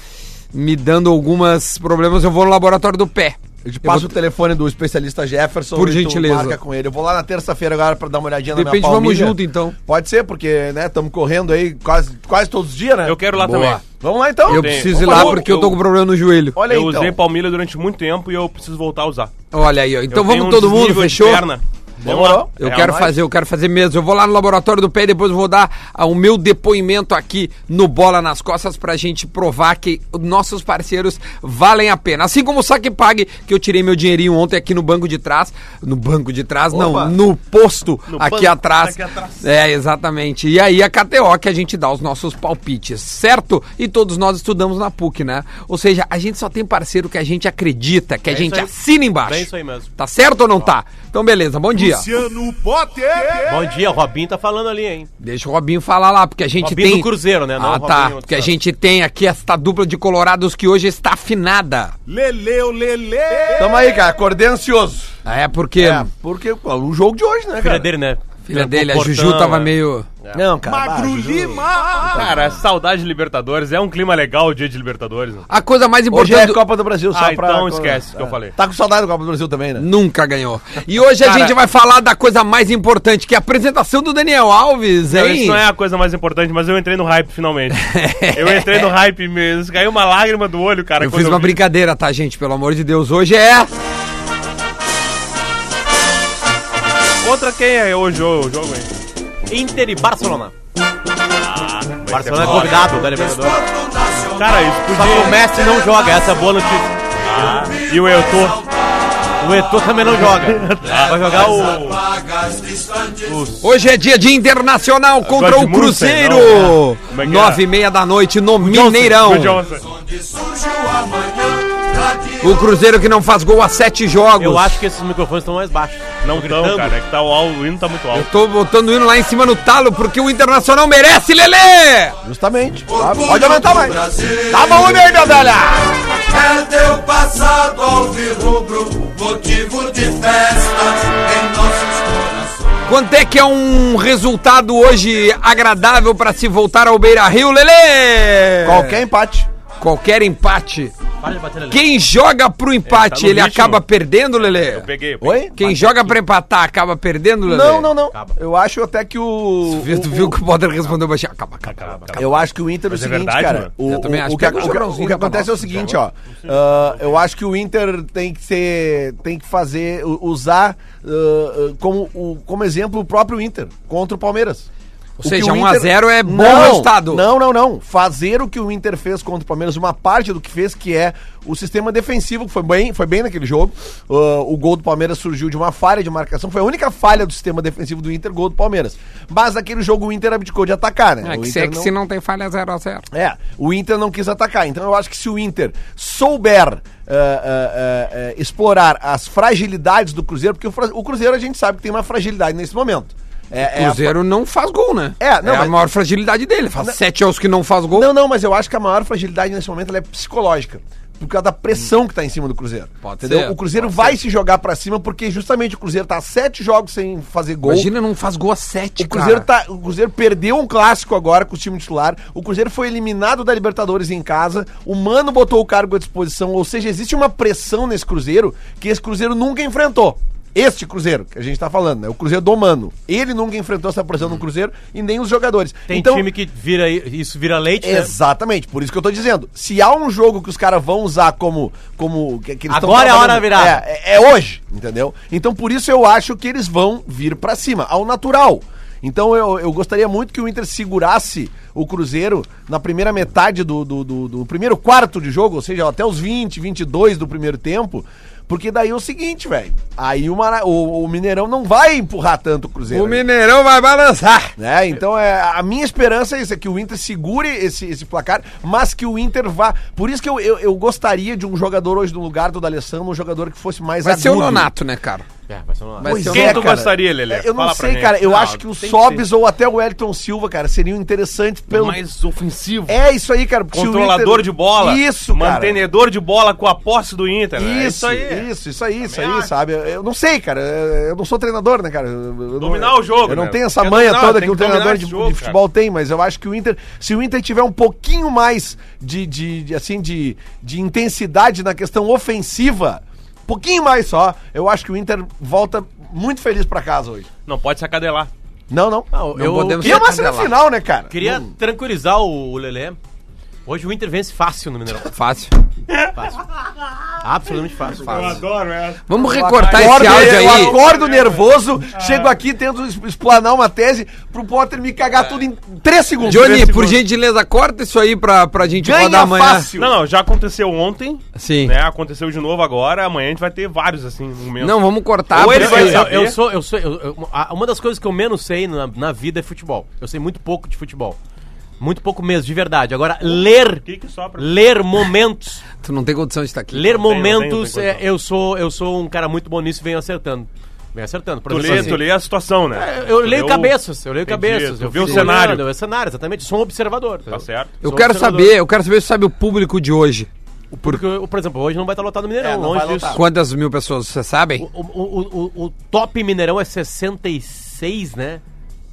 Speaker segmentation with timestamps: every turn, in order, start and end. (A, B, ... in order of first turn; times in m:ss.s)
0:00.5-0:04.1 A
0:03.6-0:13.2 B
0:05.7-0:06.6 A
0:08.5-0:09.8 A
0:13.0-0:13.8 C
0:13.3-0:13.8 A
0:14.0-0:15.5 B
0:14.4-0:15.8 C
0:14.4-0:16.6 A
0:16.5-0:17.2 B
0:16.7-0:19.3 C
0:19.5-0:21.5 A
0:20.1-0:23.0 C
0:22.0-0:23.1 B
0:22.6-0:52.1 A
0:36.7-0:37.2 B
0:38.1-0:39.4 C
0:48.3-0:49.9 D
0:51.7-0:53.7 E
0:53.4-0:55.1 D
0:55.2-1:02.0 A
0:56.6-0:58.5 D
1:02.1-1:04.0 E
1:03.5-1:05.1 B
1:05.2-1:06.1 A
1:05.8-1:07.9 B
1:07.6-1:09.5 D
1:08.4-1:10.1 A
1:09.1-1:09.7 C
1:10.3-1:12.6 B
1:10.6-1:12.2 E
1:12.0-1:15.4 C
1:15.5-1:16.6 A
1:16.1-1:19.9 B
1:17.1-1:18.6 C
1:19.8-1:25.6 A
1:25.1-1:31.6 C
1:27.7-1:28.9 A
1:31.0-1:33.7 A
1:37.2-1:38.9 C
1:39.5-1:40.5 D
1:41.4-1:43.1 C
1:42.1-1:43.6 D
1:44.2-1:45.4 C
1:44.9-1:47.5 D
1:47.2-1:48.6 C
1:49.4-1:52.0 D
1:50.5-1:52.0 C
1:53.1-1:53.6 C
1:53.6-1:59.6 A
1:55.2-1:57.6 C
1:58.6-1:59.8 C
1:58.8-1:59.2 D
2:00.6-2:01.4 F
2:02.4-2:04.8 A
2:04.4-2:07.0 D
2:06.2-2:08.3 C
2:08.1-2:12.2 A
2:12.2-2:16.0 B
2:16.6-2:22.2 F
2:22.8-2:29.0 A
2:28.6-2:29.5 B
2:29.8-2:30.9 A
2:31.2-2:31.8 D
2:31.7-2:34.9 A
2:32.8-2:33.8 C
2:34.4-2:36.2 C
2:35.2-2:35.5 B
2:35.6-2:37.9 A
2:37.4-2:40.4 B
2:39.6-2:42.4 A
2:41.6-2:43.7 C
2:42.2-2:54.7 B
2:43.8-2:45.8 A
2:45.8-2:47.2 C
2:55.2-2:57.3 A
2:55.2-3:11.9 B
3:11.2-3:13.0 A
3:13.1-3:24.1 B
3:23.6-3:28.1 A
3:25.2-3:25.8 B
3:27.9-3:37.9 B
3:33.0-3:33.6 A
3:37.6-3:39.5 A
3:39.0-3:56.3 B
3:55.9-3:58.1 D
3:57.8-4:23.2 B
4:02.7-4:03.8 D
4:22.9-4:24.6 A
4:24.6-4:34.7 B
4:34.0-4:35.2 A
4:35.5-4:36.3 D
4:36.0-4:36.7 A
4:36.0-4:42.0 B
4:36.3-4:39.3 C
4:41.7-4:43.0 C
4:42.9-4:45.8 B
4:43.7-4:48.5 C
4:47.6-5:07.3 B
4:49.0-4:49.5 C
4:52.6-4:55.6 C
5:07.4-5:08.3 C
5:08.7-5:09.1 B
5:09.1-5:10.1 D
5:09.4-5:10.5 A
5:09.8-5:11.5 B
5:11.1-5:13.0 D
5:13.6-5:15.1 D
5:15.0-5:15.5 A
5:16.1-5:16.4 D
5:17.2-5:18.4 D
5:18.0-5:18.4 A
5:18.1-5:21.4 C
5:19.1-5:20.8 A
5:19.5-5:27.0 B
5:22.0-5:22.3 C
5:26.2-5:29.7 A
5:28.8-5:30.0 B
5:29.8-5:36.4 C
5:31.4-5:31.8 A
5:34.6-5:36.1 A
5:35.4-5:41.2 D
5:41.8-5:43.8 D
5:43.3-5:44.6 C
5:44.4-5:45.6 D
5:45.8-5:47.0 A
5:46.7-5:52.1 D
5:46.9-5:48.0 C
5:51.5-5:53.7 C
5:51.6-5:52.0 A
5:52.7-5:58.6 D
5:54.2-5:55.6 C
5:55.0-5:55.3 A
5:57.3-5:57.7 C
5:57.8-6:00.3 A
6:00.7-6:03.2 D
6:02.4-6:03.2 B
6:03.1-6:04.7 A
6:04.6-6:08.4 D